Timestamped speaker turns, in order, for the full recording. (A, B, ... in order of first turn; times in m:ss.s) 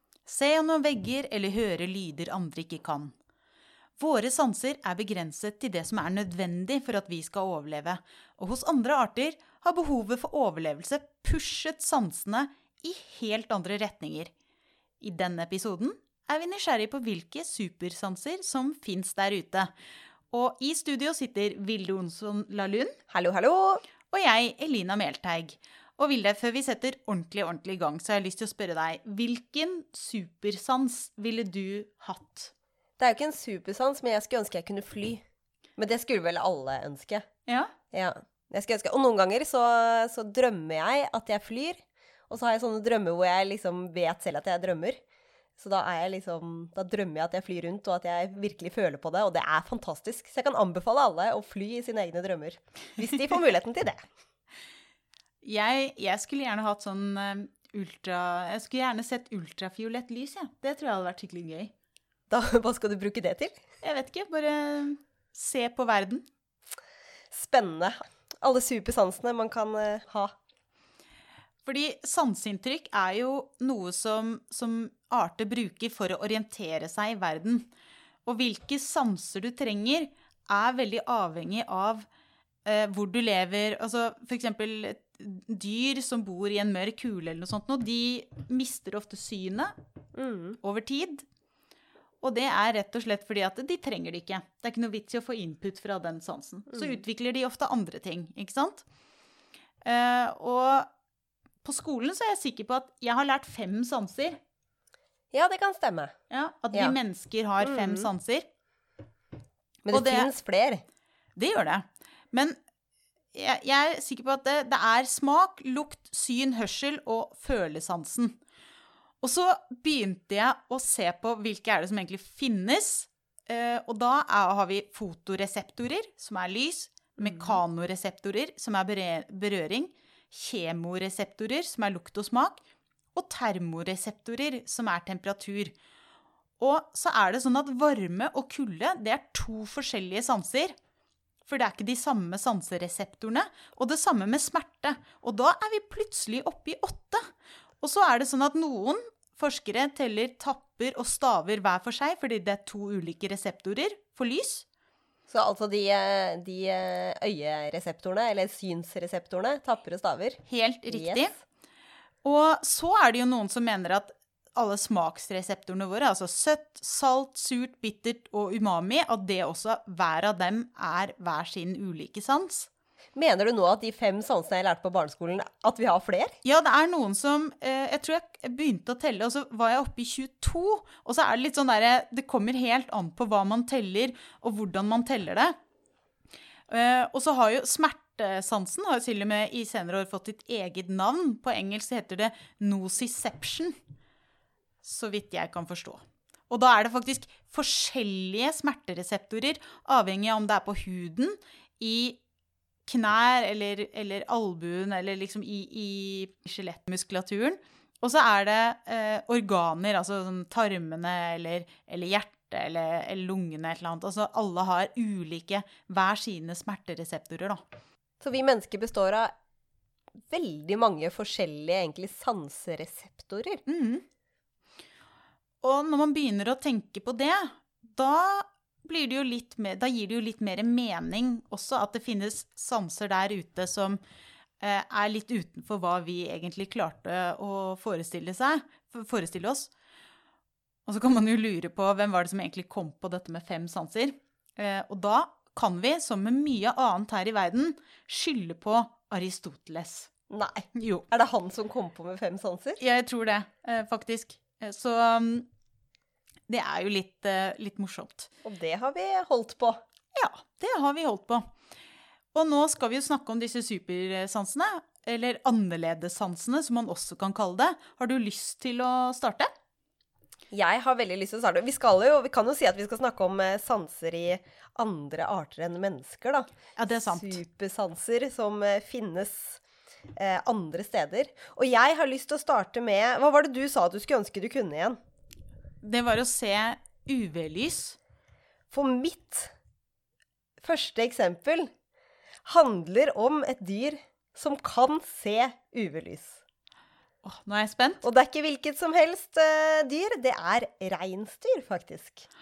0:00.3-0:03.1 A
0:04.0-0:14.3 A
0:15.0-0:19.7 A
0:20.3-0:23.0 A
0:23.1-0:23.8 B
0:24.1-0:32.5 A
0:33.0-0:35.2 B
0:35.8-0:37.2 B
0:37.5-0:37.7 A
0:37.9-0:45.0 B
0:45.6-0:54.1 B
0:55.4-1:01.7 A
1:02.3-1:03.6 B
1:03.8-1:06.2 A
1:07.3-1:10.3 B
1:11.6-1:17.7 A
1:18.2-1:22.1 A
1:22.6-1:29.7 A
1:30.2-1:30.6 B
1:30.6-1:31.2 A
1:32.2-1:38.8 A
1:39.8-1:40.9 A
1:41.6-1:44.4 A
1:45.3-1:46.1 B
1:46.3-1:48.5 A
1:47.6-1:48.1 B
1:49.8-1:50.8 B
1:49.9-1:50.3 A
1:51.4-1:52.6 A
1:53.3-1:58.4 A
1:59.2-2:12.6 A
2:07.2-2:07.6 B
2:13.1-2:15.7 A
2:16.6-2:20.7 A
2:21.4-2:27.2 A
2:27.8-2:34.6 A
2:35.3-2:41.4 B
2:40.5-2:41.3 A
2:42.2-2:52.7 A
2:53.1-2:56.3 B
2:56.4-3:05.5 A
3:06.7-3:13.8 A
3:14.8-3:22.2 A
3:22.8-3:37.6 A
3:38.2-3:39.3 B
3:40.3-3:43.6 B
3:43.6-3:44.0 A
3:45.6-3:54.0 A
3:54.6-3:59.7 A
4:00.8-4:10.1 A
4:10.3-4:12.8 B
4:10.7-4:11.0 A
4:12.8-4:15.5 A
4:16.5-4:18.3 A
4:18.4-4:19.8 B
4:20.1-4:21.4 A
4:22.3-4:29.5 A
4:30.5-4:36.5 B
4:36.8-4:37.4 A
4:37.1-4:39.6 B
4:40.2-4:45.0 B
4:45.8-4:48.0 A
4:48.7-4:49.5 B
4:50.6-4:51.7 B
4:52.4-4:56.4 B
4:57.2-4:58.0 A
4:58.0-5:02.2 B